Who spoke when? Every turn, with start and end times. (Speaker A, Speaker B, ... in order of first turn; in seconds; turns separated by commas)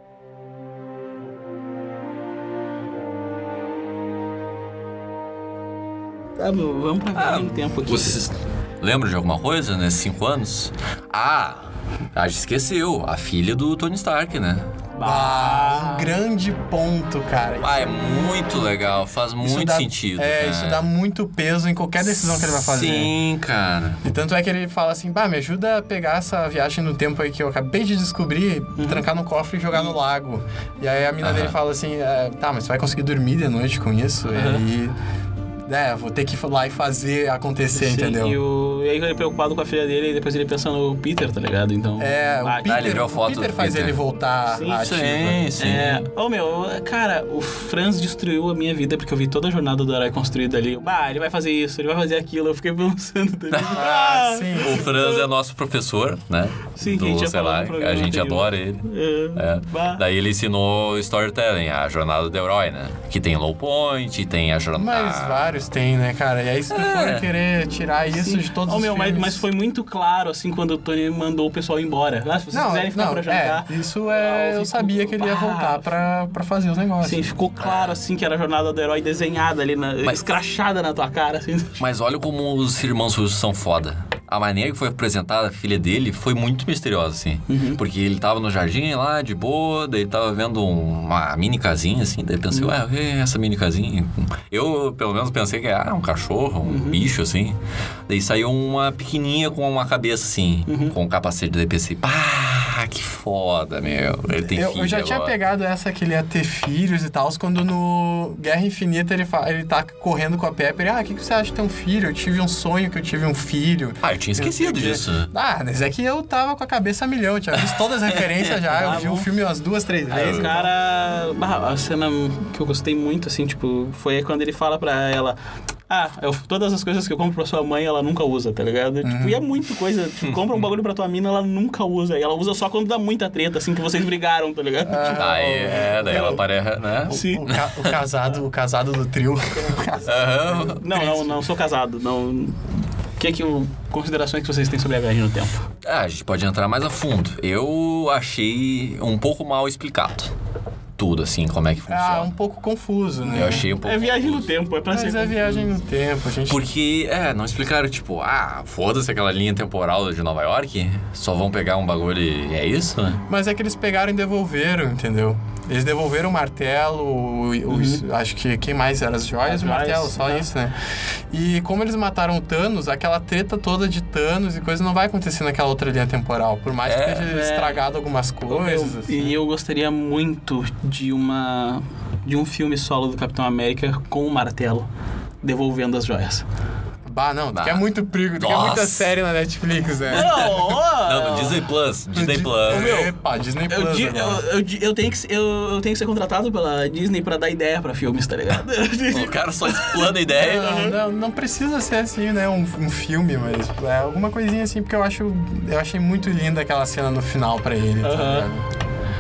Speaker A: 6.4-8.2, Speaker B: 7.2-14.7, Speaker A: 14.9-16.1, Speaker C: 15.0-18.3, Speaker B: 17.6-20.9, Speaker C: 19.4-23.1, Speaker B: 22.0-24.0, Speaker C: 24.0-34.9, Speaker A: 28.8-29.0, Speaker B: 31.2-31.5, Speaker A: 34.3-34.6, Speaker C: 35.6-38.4, Speaker A: 37.7-43.0, Speaker C: 42.0-45.4, Speaker B: 42.6-44.0, Speaker A: 44.5-44.9, Speaker B: 44.6-46.0, Speaker A: 45.6-55.2, Speaker B: 53.5-53.8, Speaker C: 53.7-54.9, Speaker B: 54.6-65.5, Speaker A: 56.8-60.0, Speaker C: 64.8-69.4, Speaker B: 66.7-67.3, Speaker A: 68.1-75.8, Speaker C: 72.5-77.3, Speaker A: 77.0-81.8, Speaker B: 77.6-78.0, Speaker B: 81.8-97.6, Speaker A: 87.5-87.8, Speaker A: 96.6-97.1, Speaker B: 98.1-105.3, Speaker A: 100.7-101.0, Speaker C: 104.5-120.7, Speaker B: 114.0-115.3, Speaker B: 117.6-119.0, Speaker A: 118.8-119.3, Speaker B: 120.1-120.5, Speaker A: 120.1-125.4, Speaker A: 125.9-136.4, Speaker C: 129.0-129.4, Speaker B: 130.2-130.7, Speaker C: 134.8-136.4, Speaker B: 135.2-138.0, Speaker C: 137.1-141.4, Speaker A: 137.1-137.4, Speaker B: 140.0-140.8, Speaker A: 140.7-142.7, Speaker A: 143.2-145.6, Speaker B: 145.8-150.3, Speaker B: 151.0-152.3, Speaker C: 151.9-153.7, Speaker B: 153.3-154.5, Speaker A: 153.3-155.7, Speaker C: 154.9-156.6, Speaker B: 156.5-163.2, Speaker C: 163.3-170.7, Speaker A: 167.7-168.0, Speaker A: 169.4-170.5, Speaker C: 171.3-179.3, Speaker B: 176.8-177.3, Speaker A: 177.3-177.8, Speaker A: 178.5-184.9, Speaker A: 185.4-186.4, Speaker C: 187.1-190.3, Speaker B: 187.5-187.8, Speaker B: 188.4-189.1, Speaker A: 190.1-191.6, Speaker B: 190.1-193.1, Speaker C: 192.1-194.4, Speaker A: 192.7-193.1, Speaker A: 193.7-200.7, Speaker B: 199.1-200.9, Speaker C: 200.3-208.7, Speaker A: 208.0-208.5